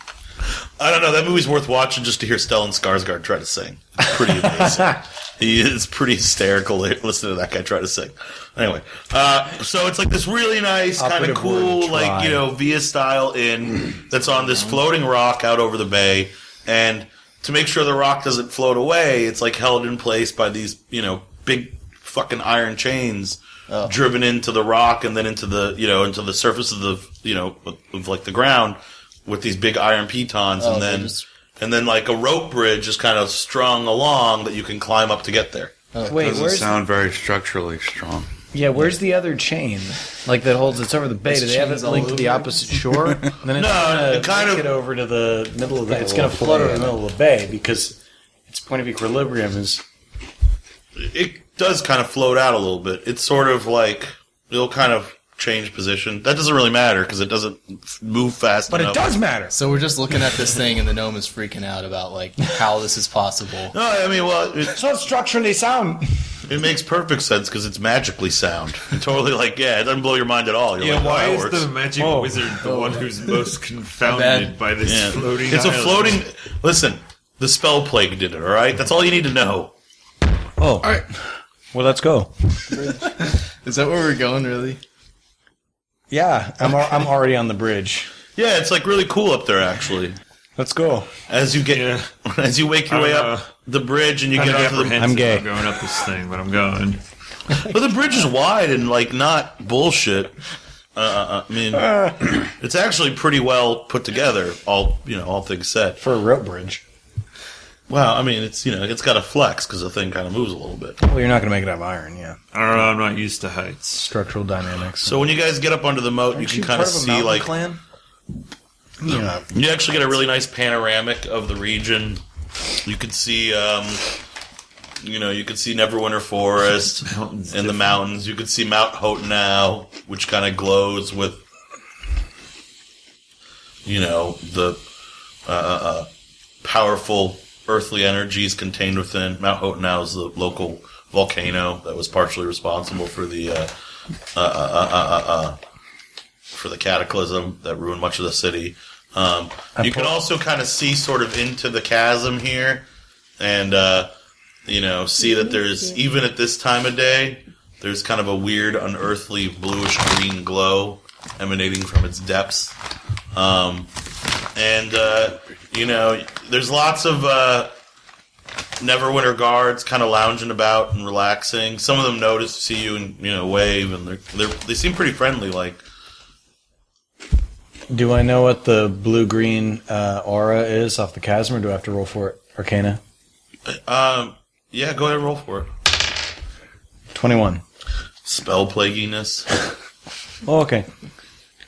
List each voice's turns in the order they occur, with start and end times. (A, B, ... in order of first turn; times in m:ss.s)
0:00.8-0:35.7 A
0:04.4-0:05.0 B
0:11.0-0:12.4 B
0:14.4-0:14.8 C
0:23.7-0:23.9 C
0:30.6-0:31.2 C
0:35.9-0:36.3 C
0:36.0-0:36.8 B
0:36.1-0:38.3 D
0:38.5-0:49.8 B
0:41.3-0:42.8 C
0:43.0-0:43.3 D
0:43.5-0:44.7 A
0:45.9-0:46.9 D
0:51.0-0:59.2 A
0:58.7-0:59.6 B
0:59.5-1:03.7 C
1:03.7-1:04.8 A
1:04.7-1:06.1 B
1:06.5-1:11.7 A
1:10.8-1:16.2 E
1:12.0-1:12.5 B
1:12.6-1:13.1 C
1:14.0-1:14.6 C
1:14.8-1:19.7 A
1:20.6-1:21.2 B
1:21.7-1:23.2 B
1:22.7-1:24.8 C
1:26.1-1:28.1 B
1:28.4-1:30.2 A
1:30.6-1:31.1 B
1:31.3-1:35.1 A
1:31.7-1:32.1 E
1:32.9-1:33.5 E
1:34.3-1:37.0 E
1:35.0-1:35.5 B
1:37.6-1:40.4 A
1:41.0-1:46.0 A
1:41.8-1:42.2 B
1:46.0-1:46.8 B
1:47.9-1:51.0 A
1:51.0-1:52.4 B
1:52.5-1:54.1 E
1:54.0-1:55.3 B
1:55.0-1:57.5 A
1:56.3-1:57.8 B
1:59.0-1:59.5 B
1:59.5-2:02.2 A
2:02.8-2:04.0 A
2:05.0-2:11.4 A
2:07.0-2:08.0 E
2:13.8-2:14.8 A
2:15.5-2:16.1 A
2:16.6-2:23.7 A
2:24.4-2:25.6 A
2:26.5-2:32.9 A
2:29.8-2:30.1 B
2:33.4-2:34.1 A
2:34.7-2:42.8 A
2:43.3-2:43.9 A
2:44.6-2:47.7 A
2:48.8-2:55.8 A
2:57.9-3:03.0 B
3:03.7-3:05.7 A
3:07.1-3:07.6 B
3:08.2-3:09.5 A
3:10.4-3:10.9 B